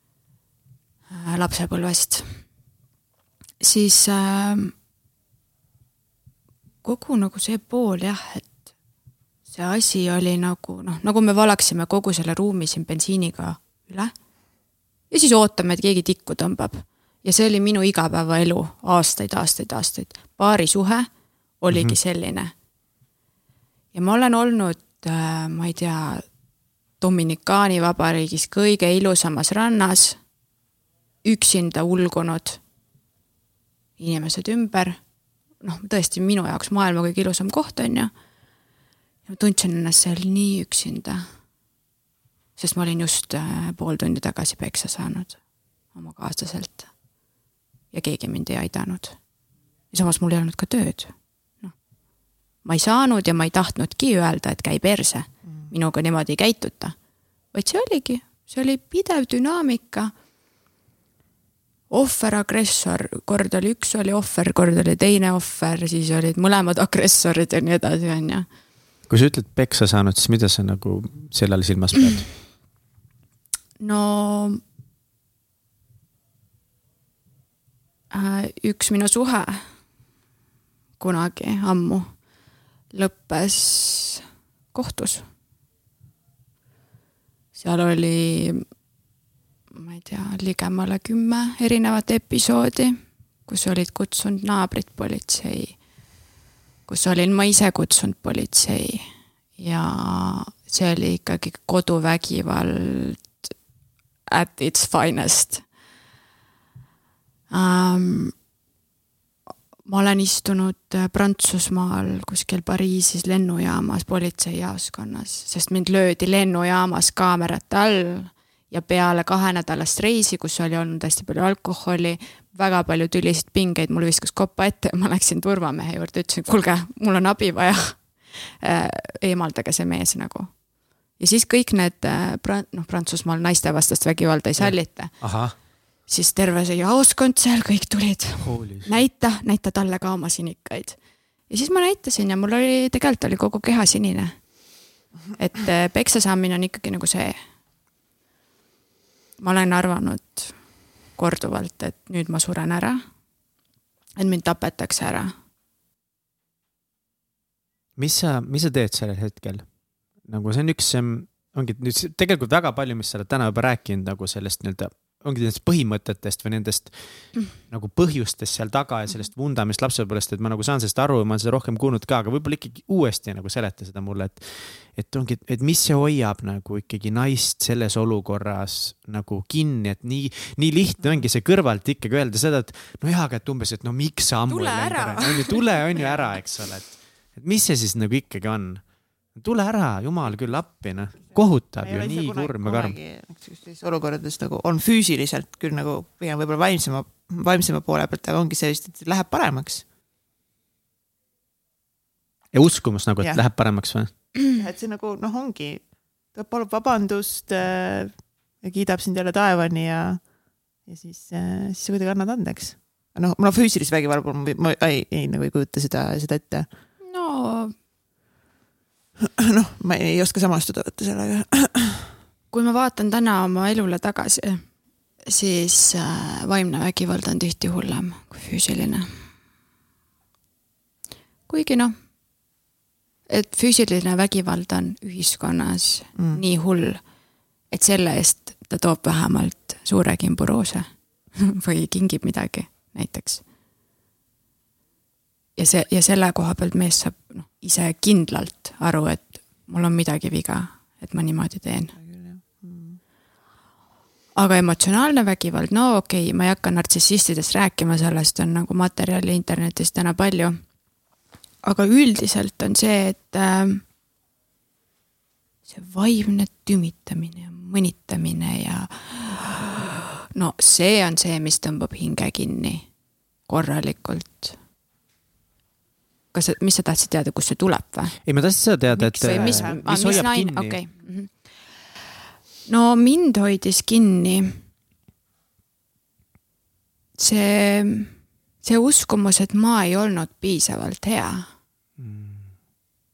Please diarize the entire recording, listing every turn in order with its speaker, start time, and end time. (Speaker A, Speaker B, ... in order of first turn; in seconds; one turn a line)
Speaker A: 1.1-2.4
Speaker A: 3.6-4.7
Speaker A: 6.8-8.5
Speaker A: 9.5-14.1
Speaker A: 15.1-21.1
Speaker A: 21.6-22.5
Speaker A: 23.9-26.2
Speaker A: 27.0-30.2
Speaker A: 31.2-32.6
Speaker A: 34.0-35.0
Speaker A: 35.6-38.1
Speaker A: 39.2-41.2
Speaker A: 42.6-45.4
Speaker A: 45.9-46.9
Speaker A: 47.9-49.2
Speaker A: 49.9-51.7
Speaker A: 52.6-56.9
Speaker A: 57.5-60.1
Speaker A: 61.9-68.5
Speaker B: 69.1-72.3
Speaker A: 73.8-74.6
Speaker A: 78.1-79.6
Speaker A: 81.0-82.1
Speaker A: 82.9-85.2
Speaker A: 87.5-88.6
Speaker A: 89.7-95.8
Speaker A: 96.9-103.5
Speaker A: 104.3-105.6
Speaker A: 107.5-108.3
Speaker A: 109.8-130.5
Speaker A: 131.2-135.3
Speaker B: 134.6-135.5
Speaker A: 136.1-141.0
Speaker B: 138.4-138.9
Speaker A: 141.5-144.4
Speaker A: 145.4-147.4
Speaker A: 149.4-150.5
Speaker A: 151.2-153.0
Speaker A: 154.2-155.3
Speaker B: 158.0-159.7
Speaker B: 160.2-193.0
Speaker A: 184.5-186.0
Speaker C: 191.8-199.8
Speaker B: 202.5-204.1
Speaker C: 204.5-210.3
Speaker C: 210.8-216.7
Speaker A: 217.0-217.7
Speaker C: 219.4-222.1
Speaker A: 222.5-224.6
Speaker A: 225.3-229.1
Speaker A: 231.5-231.9
Speaker A: 233.3-237.0
Speaker C: 236.2-236.4
Speaker A: 237.7-243.4
Speaker A: 245.6-251.9
Speaker C: 251.9-253.0
Speaker A: 254.3-260.6
Speaker A: 261.6-263.8
Speaker A: 265.6-272.9
Speaker A: 273.5-274.5
Speaker A: 276.3-278.2
Speaker B: 278.2-280.8
Speaker A: 278.9-281.3
Speaker C: 279.1-280.2
Speaker A: 282.7-284.6
Speaker A: 287.2-291.5
Speaker B: 292.0-292.5